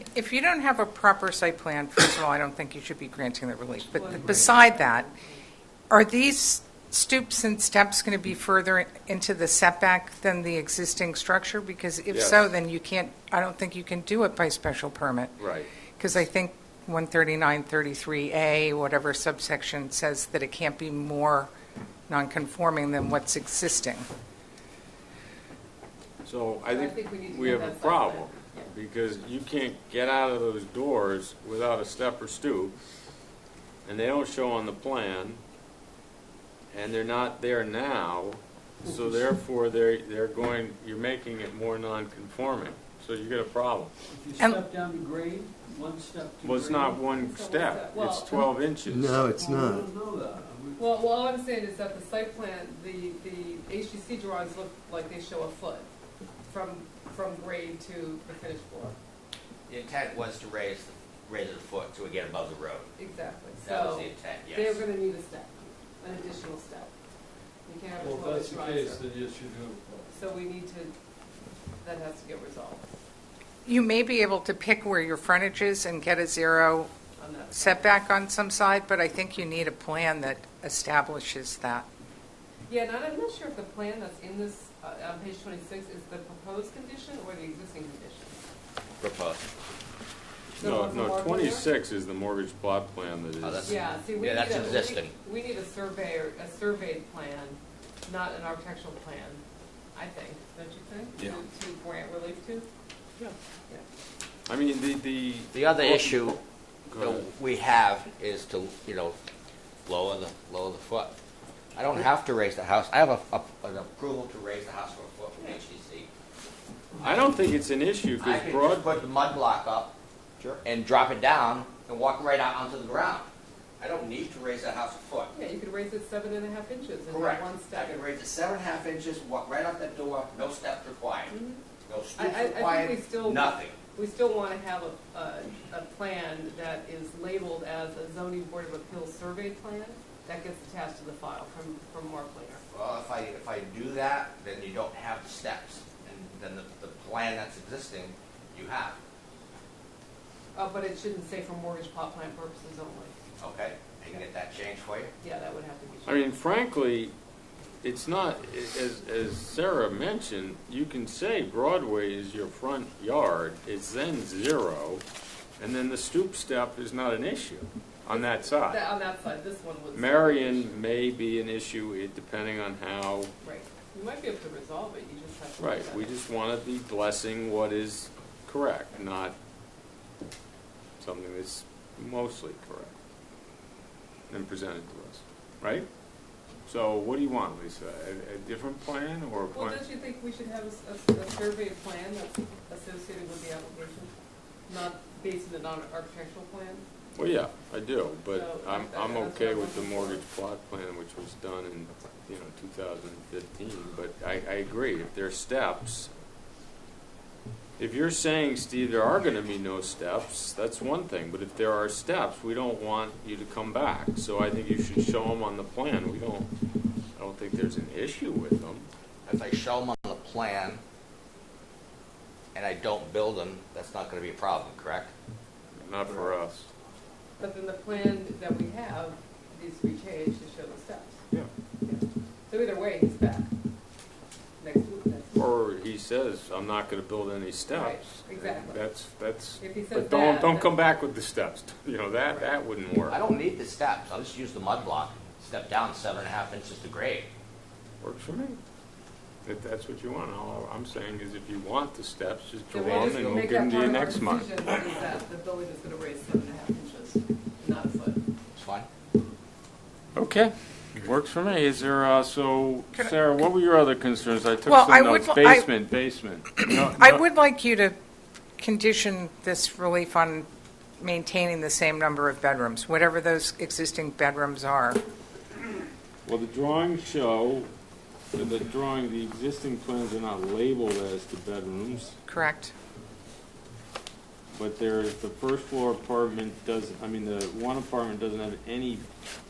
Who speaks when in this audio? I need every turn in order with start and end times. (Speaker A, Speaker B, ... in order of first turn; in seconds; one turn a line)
Speaker A: 0.1-5.1
Speaker B: 3.9-5.4
Speaker A: 5.9-15.3
Speaker C: 12.1-12.5
Speaker C: 15.4-15.7
Speaker A: 16.0-21.5
Speaker A: 22.1-24.1
Speaker C: 26.2-32.7
Speaker B: 26.7-28.6
Speaker C: 33.9-35.4
Speaker C: 36.7-43.9
Speaker D: 44.1-47.0
Speaker C: 46.4-49.3
Speaker B: 47.1-48.5
Speaker D: 49.3-50.8
Speaker B: 50.8-55.9
Speaker B: 56.5-59.0
Speaker E: 59.7-62.9
Speaker B: 63.0-66.9
Speaker E: 63.6-64.8
Speaker B: 67.7-69.0
Speaker D: 68.0-70.1
Speaker B: 70.1-70.9
Speaker B: 71.8-72.9
Speaker A: 73.7-76.9
Speaker B: 77.2-78.0
Speaker A: 77.5-81.9
Speaker B: 82.7-88.4
Speaker E: 89.0-89.5
Speaker B: 90.6-91.7
Speaker C: 90.6-93.7
Speaker E: 93.4-95.1
Speaker B: 93.6-99.4
Speaker B: 99.9-102.7
Speaker C: 104.5-106.3
Speaker E: 105.5-106.4
Speaker C: 106.9-107.2
Speaker E: 106.9-109.2
Speaker E: 109.8-111.1
Speaker E: 111.7-116.1
Speaker C: 117.0-118.9
Speaker E: 118.2-119.9
Speaker E: 120.5-123.3
Speaker E: 123.8-125.3
Speaker B: 125.3-128.0
Speaker E: 127.1-131.3
Speaker B: 131.3-131.6
Speaker E: 131.9-133.8
Speaker B: 132.1-142.6
Speaker E: 142.7-149.0
Speaker B: 150.5-153.1
Speaker E: 153.4-155.1
Speaker B: 155.2-156.2
Speaker C: 156.1-157.1
Speaker C: 157.8-165.0
Speaker C: 165.6-168.8
Speaker B: 168.1-170.7
Speaker C: 169.9-173.3
Speaker B: 173.4-176.1
Speaker C: 175.6-179.3
Speaker C: 181.0-182.9
Speaker C: 184.3-185.9
Speaker C: 186.7-189.8
Speaker B: 189.5-194.1
Speaker B: 194.7-196.8
Speaker C: 197.1-206.1
Speaker B: 198.3-200.2
Speaker C: 207.8-216.5
Speaker C: 217.2-218.9
Speaker E: 219.2-220.8
Speaker E: 222.5-225.1
Speaker C: 225.7-226.7
Speaker B: 227.4-231.2
Speaker B: 231.8-233.5
Speaker B: 234.6-235.4
Speaker C: 235.3-243.2
Speaker B: 237.7-238.8
Speaker B: 239.6-240.7
Speaker E: 243.1-247.3
Speaker C: 248.0-248.6
Speaker C: 249.4-254.5
Speaker B: 252.7-258.2
Speaker E: 252.8-253.5
Speaker E: 258.6-258.9
Speaker C: 260.1-267.2
Speaker A: 264.6-265.7
Speaker A: 266.6-267.9
Speaker A: 268.6-270.5
Speaker A: 271.0-275.0
Speaker C: 276.2-277.7
Speaker C: 278.3-282.2
Speaker A: 282.3-282.7
Speaker C: 284.5-289.1